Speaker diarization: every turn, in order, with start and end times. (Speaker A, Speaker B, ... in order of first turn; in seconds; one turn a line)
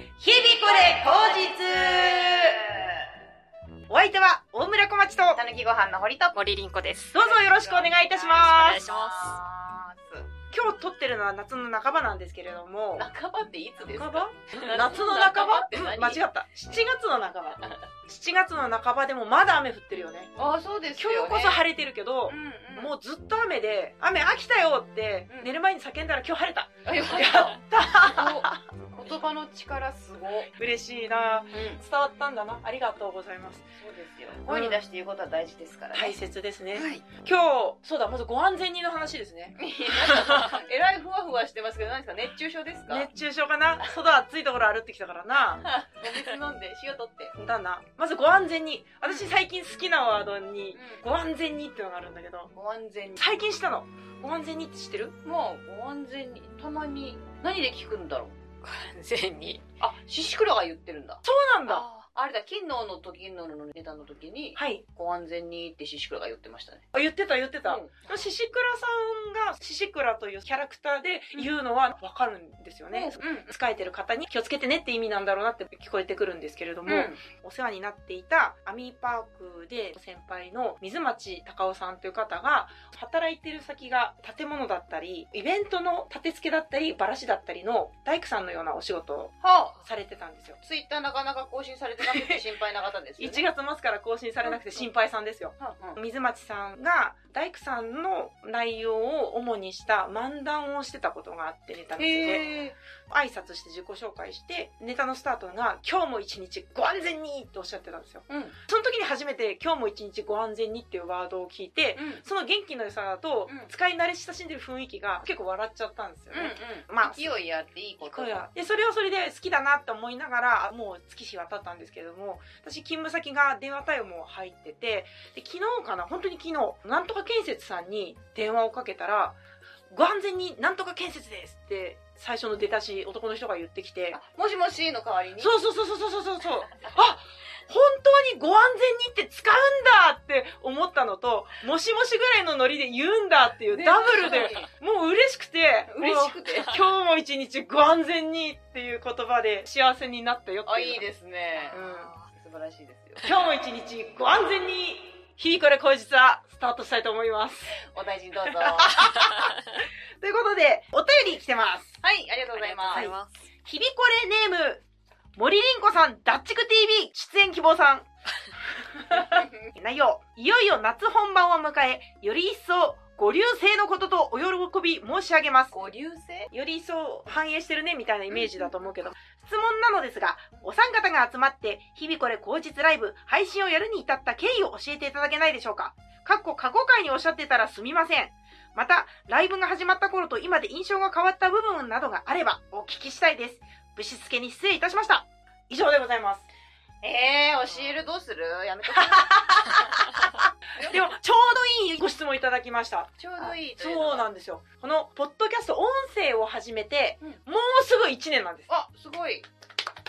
Speaker A: 0.2-2.6
Speaker B: 0.3-3.0
Speaker A: 3.9-5.4
Speaker B: 5.3-6.4
Speaker C: 6.3-7.2
Speaker A: 7.1-8.9
Speaker B: 7.2-10.3
Speaker C: 8.3-9.4
Speaker A: 10.5-13.1
Speaker B: 13.0-16.2
Speaker A: 13.8-20.3
Speaker B: 20.4-21.6
Speaker A: 21.0-28.6
Speaker B: 22.3-22.9
Speaker B: 26.9-30.5
Speaker A: 30.5-33.7
Speaker B: 31.5-31.8
Speaker B: 33.8-36.1
Speaker A: 34.5-34.8
Speaker A: 35.9-40.6
Speaker C: 36.7-37.0
Speaker B: 39.6-43.1
Speaker A: 42.9-45.7
Speaker B: 45.6-47.3
Speaker A: 47.4-52.5
Speaker B: 50.7-51.0
Speaker B: 52.5-53.2
Speaker A: 53.2-55.1
Speaker B: 55.2-58.4
Speaker C: 58.6-59.6
Speaker B: 59.8-66.9
Speaker A: 61.2-61.8
Speaker C: 61.7-62.0
Speaker A: 64.5-64.8
Speaker A: 66.9-90.6
Speaker B: 67.6-68.0
Speaker B: 72.9-73.5
Speaker B: 76.9-77.2
Speaker B: 89.4-89.8
Speaker B: 90.6-93.4
Speaker A: 92.0-92.4
Speaker A: 93.2-102.5
Speaker B: 94.4-94.8
Speaker B: 95.6-96.0
Speaker B: 102.0-102.8
Speaker A: 103.1-117.3
Speaker B: 108.3-108.5
Speaker B: 112.0-112.2
Speaker B: 116.3-118.4
Speaker A: 118.0-129.4
Speaker A: 129.9-134.2
Speaker B: 134.1-135.5
Speaker A: 135.4-151.1
Speaker B: 143.7-144.7
Speaker B: 145.9-146.8
Speaker B: 150.7-153.3
Speaker C: 151.6-152.2
Speaker A: 151.7-152.1
Speaker A: 153.2-157.7
Speaker B: 157.7-159.3
Speaker A: 158.5-159.5
Speaker A: 160.2-162.0
Speaker B: 162.0-163.1
Speaker C: 162.5-163.3
Speaker A: 162.9-164.8
Speaker A: 165.3-168.1
Speaker A: 168.9-175.7
Speaker B: 169.1-169.7
Speaker B: 175.7-176.5
Speaker A: 176.5-196.5
Speaker B: 178.3-178.7
Speaker B: 197.0-199.8
Speaker A: 198.9-200.3
Speaker B: 200.8-201.0
Speaker A: 200.8-208.7
Speaker B: 203.2-204.3
Speaker B: 208.7-209.5